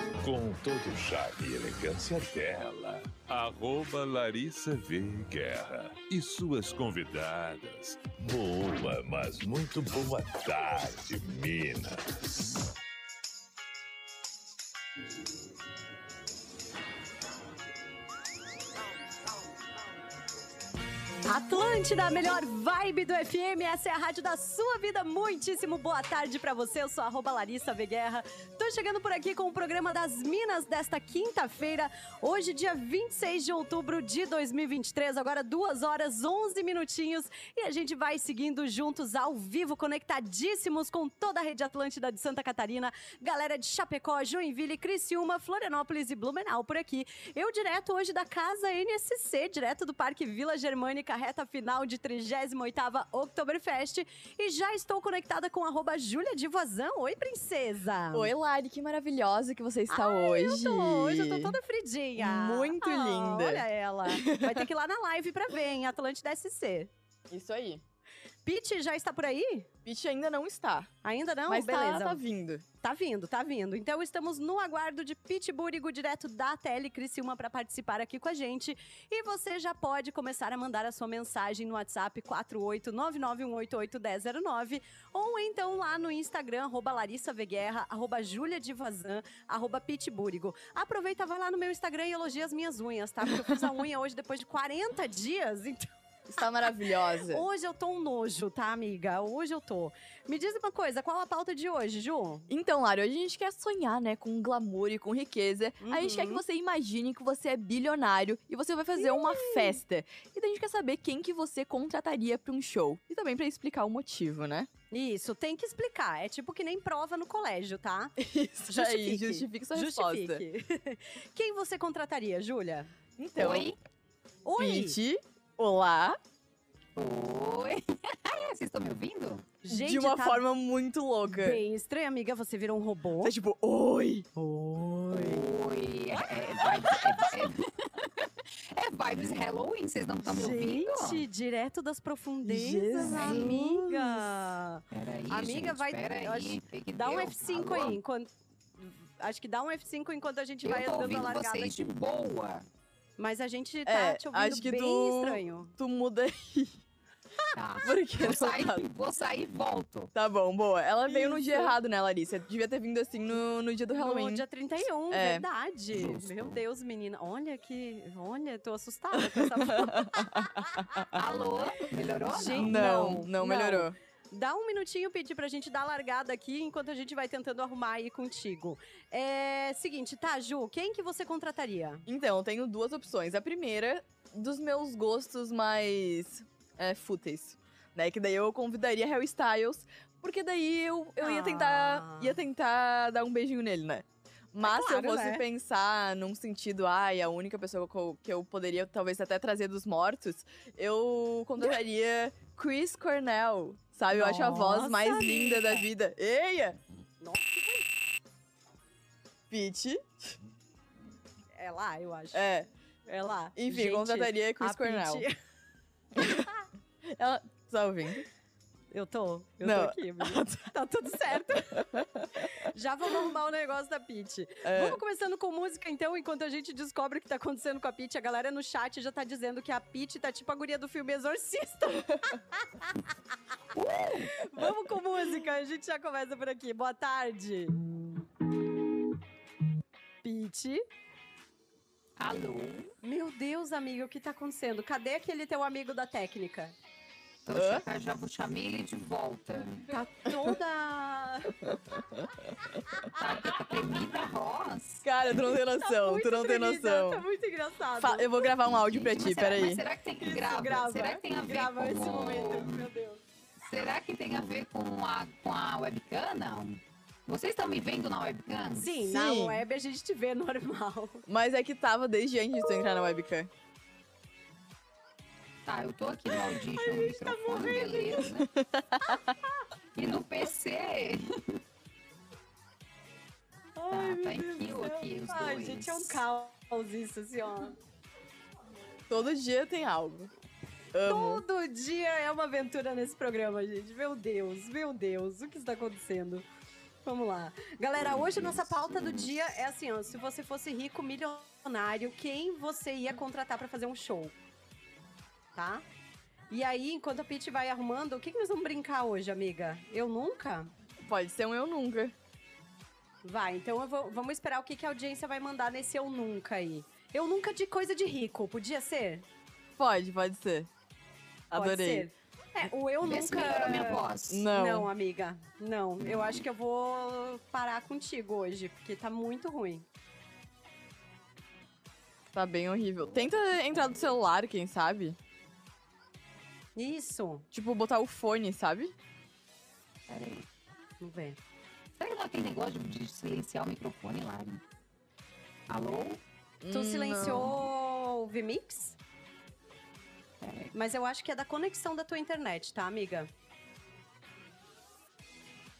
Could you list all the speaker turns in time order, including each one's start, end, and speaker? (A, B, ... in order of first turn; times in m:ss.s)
0:00.2-0:12.2 A
0:21.2-0:58.3 B
0:58.1-1:01.6 C
0:59.9-1:06.9 B
1:02.2-1:04.6 C
1:07.3-1:07.8 C
1:08.5-1:09.7 B
1:09.8-1:10.9 C
1:11.0-1:12.2 B
1:11.5-1:12.6 C
1:12.8-1:35.9 B
1:36.3-1:37.4 C
1:37.3-1:42.5 B
1:42.5-1:54.7 C
1:45.8-1:46.4 B
1:49.0-1:49.8 B
1:54.9-1:58.1 B
1:58.2-2:00.4 C
1:58.7-2:02.9 B
2:03.2-2:03.7 C
2:03.4-2:03.8 D
2:04.4-2:05.0 B
2:04.6-2:06.2 C
2:07.0-2:09.5 D
2:09.6-2:10.4 B
2:09.7-2:11.6 C
2:11.3-2:13.3 B
2:13.2-2:14.3 C
2:14.4-2:15.5 B
2:15.2-2:18.2 D
2:18.8-2:21.2 D
2:20.3-2:31.9 B
2:22.4-2:24.2 C
2:23.1-2:23.5 D
2:24.9-2:28.0 D
2:30.6-2:32.7 D
2:33.2-2:35.7 B
2:33.8-2:36.8 C
2:37.5-2:40.1 D
2:37.8-2:38.8 C
2:40.1-2:44.4 C
2:41.1-2:41.7 B
2:43.9-2:50.6 B
2:45.1-2:45.4 C
2:45.9-2:46.6 D
2:49.4-2:51.1 C
2:51.1-2:52.8 D
2:52.3-3:02.0 B
2:52.4-2:54.0 C
3:02.1-3:26.8 C
3:11.2-3:12.4 B
3:14.6-3:15.4 B
3:24.1-3:25.9 B
3:27.2-3:27.9 B
3:29.5-3:30.4 C
3:31.6-3:32.4 B
3:32.3-3:32.7 C
3:33.1-3:35.3 B
3:33.6-3:35.2 C
3:36.2-3:36.5 C
3:37.1-3:38.2 C
3:38.9-3:41.9 B
3:39.6-3:40.7 C
3:41.9-3:42.3 C
3:42.4-3:52.4 B
3:44.6-3:45.0 C
3:53.8-3:54.3 D
3:54.3-3:57.8 B
4:00.2-4:00.8 B
4:02.2-4:02.9 D
4:03.0-4:06.7 B
4:07.5-4:09.9 D
4:07.5-4:07.8 C
4:09.9-4:11.6 B
4:13.2-4:15.0 D
4:15.0-4:17.2 C
4:15.5-4:18.5 B
4:18.0-4:19.8 C
4:18.7-4:22.9 D
4:20.2-4:23.2 B
4:23.6-4:29.0 D
4:28.8-4:31.2 B
4:29.1-4:29.6 C
4:31.3-4:33.5 C
4:35.7-4:38.5 D
4:36.7-4:38.3 B
4:38.4-4:38.9 C
4:39.9-4:41.3 D
4:43.8-4:47.8 B
4:43.9-4:46.2 D
4:49.1-4:50.3 C
4:50.9-4:51.4 C
4:51.1-4:56.5 B
4:57.0-5:04.3 B
5:05.6-5:05.8 B
5:06.5-5:10.7 B
5:11.1-5:12.1 C
5:13.2-5:19.2 B
5:19.8-5:20.7 C
5:21.5-5:22.1 C
5:21.5-5:29.8 B
5:23.0-5:24.4 D
5:24.3-5:24.9 C
5:32.3-5:35.2 C
5:36.8-5:37.4 B
5:37.5-5:38.9 C
5:40.1-5:40.4 D
5:41.0-5:41.4 B
5:42.0-5:44.6 D
5:45.7-5:46.2 D
5:46.6-5:47.5 C
5:46.7-5:49.0 B
5:50.4-5:50.7 D
5:50.7-5:53.3 B